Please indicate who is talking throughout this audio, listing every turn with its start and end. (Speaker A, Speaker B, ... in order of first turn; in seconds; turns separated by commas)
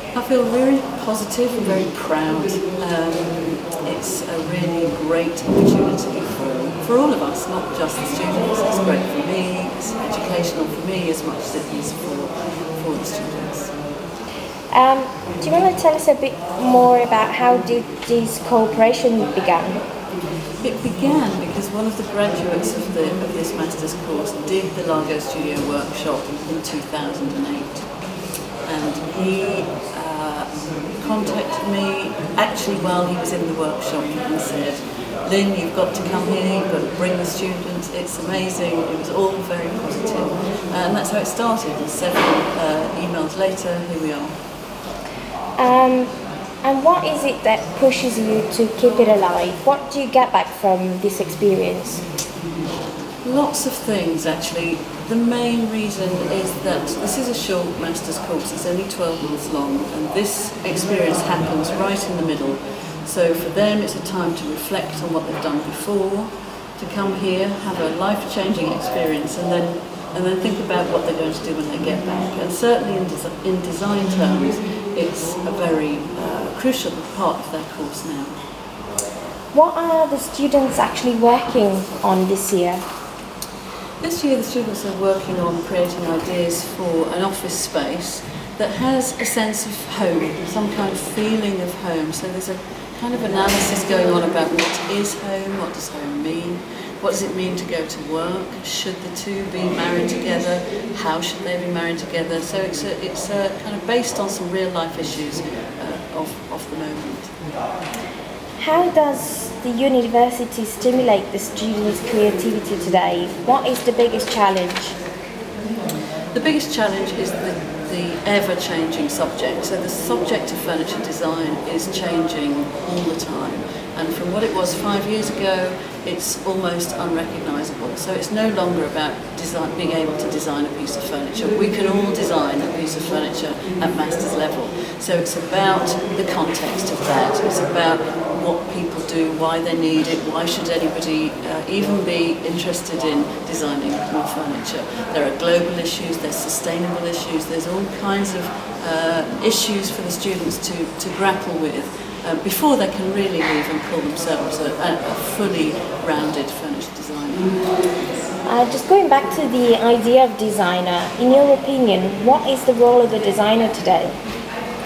Speaker A: 0.1-13.7, Speaker B: 14.7-19.8, Speaker A: 20.6-27.9, Speaker A: 28.6-44.3, Speaker B: 45.6-46.1, Speaker B: 46.6-52.0, Speaker A: 53.2-78.3, Speaker B: 79.5-82.8, Speaker A: 84.0-107.3, Speaker B: 108.6-115.0, Speaker A: 116.3-157.6, Speaker B: 158.4-164.2